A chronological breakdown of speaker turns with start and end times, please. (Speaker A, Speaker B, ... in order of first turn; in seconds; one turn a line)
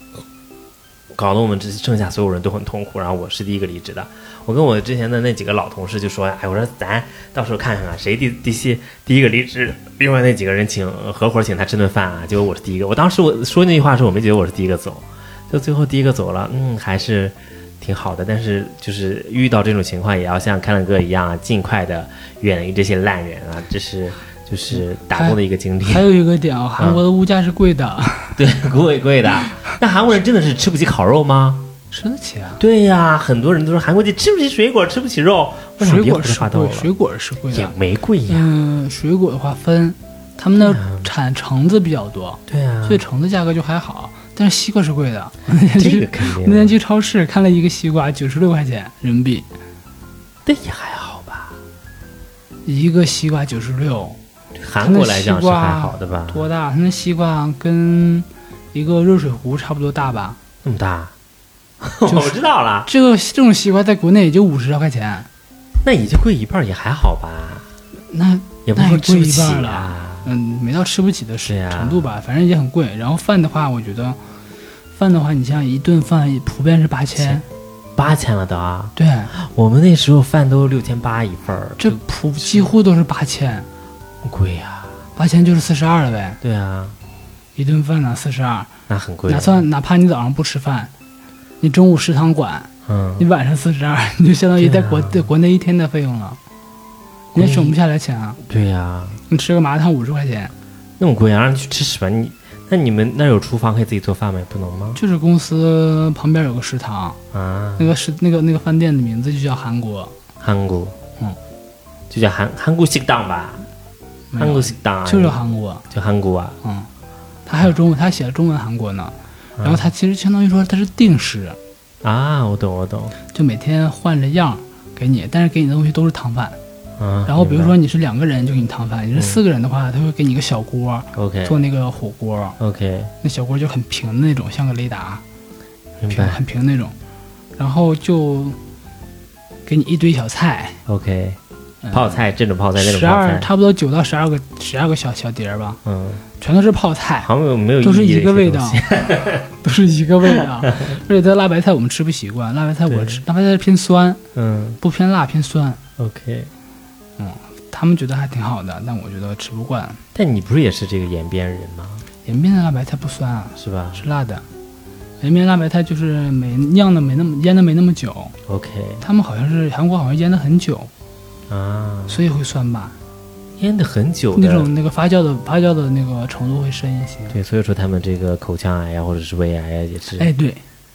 Speaker A: 1.1-26.0
Speaker B: 24.8-28.4
Speaker A: 28.4-31.7
Speaker B: 31.9-32.6
Speaker A: 32.6-36.9
Speaker B: 35.8-37.7
Speaker A: 37.5-38.5
Speaker B: 38.3-49.5
Speaker A: 40.6-41.1
Speaker A: 42.5-43.0
Speaker A: 45.8-46.7
Speaker A: 50.4-51.6
Speaker B: 52.6-54.2
Speaker A: 54.6-56.5
Speaker B: 54.8-60.4
Speaker A: 60.6-61.1
Speaker A: 61.8-62.9
Speaker B: 62.1-62.3
Speaker B: 62.9-65.3
Speaker A: 65.8-67.7
Speaker B: 68.1-74.2
Speaker A: 68.7-70.3
Speaker A: 71.5-72.0
Speaker B: 74.9-77.4
Speaker A: 77.2-77.4
Speaker A: 78.0-82.7
Speaker B: 79.0-79.3
Speaker B: 81.8-83.7
Speaker A: 84.2-85.0
Speaker B: 85.2-86.4
Speaker A: 86.4-87.0
Speaker B: 87.5-88.7
Speaker A: 88.9-89.6
Speaker B: 89.3-90.9
Speaker B: 91.6-96.4
Speaker A: 92.8-93.2
Speaker A: 94.6-95.3
Speaker B: 97.3-98.4
Speaker A: 97.3-97.7
Speaker A: 98.5-99.2
Speaker B: 99.3-100.5
Speaker A: 101.0-105.0
Speaker B: 104.9-107.2
Speaker A: 107.3-107.9
Speaker B: 107.8-110.1
Speaker A: 110.4-111.0
Speaker A: 112.1-113.7
Speaker B: 114.3-115.8
Speaker A: 114.4-115.4
Speaker A: 115.9-116.6
Speaker B: 116.6-116.9
Speaker B: 117.5-121.6
Speaker A: 119.6-119.9
Speaker A: 122.0-123.2
Speaker B: 123.3-126.6
Speaker A: 127.0-127.8
Speaker B: 127.3-132.6
Speaker A: 131.1-131.6
Speaker A: 132.6-133.1
Speaker B: 133.2-135.2
Speaker A: 136.0-136.4
Speaker B: 136.1-136.9
Speaker B: 137.6-138.6
Speaker B: 139.7-140.8
Speaker A: 140.8-141.4
Speaker B: 141.8-142.2
Speaker A: 141.9-143.5
Speaker B: 142.8-145.8
Speaker A: 145.8-146.2
Speaker B: 146.4-147.3
Speaker A: 147.2-149.5
Speaker B: 147.8-148.8
Speaker B: 149.5-154.2
Speaker A: 150.7-150.9
Speaker A: 152.9-153.2
Speaker A: 154.3-154.8
Speaker B: 154.8-155.8
Speaker A: 156.0-156.5
Speaker B: 157.2-160.0
Speaker A: 160.1-162.1
Speaker B: 162.2-164.4
Speaker A: 163.6-164.0
Speaker B: 165.2-168.3
Speaker A: 168.5-169.0
Speaker B: 169.0-170.9
Speaker A: 171.5-172.2
Speaker B: 172.1-172.9
Speaker A: 173.6-174.7
Speaker B: 174.3-177.3
Speaker A: 177.3-180.3
Speaker B: 180.1-180.6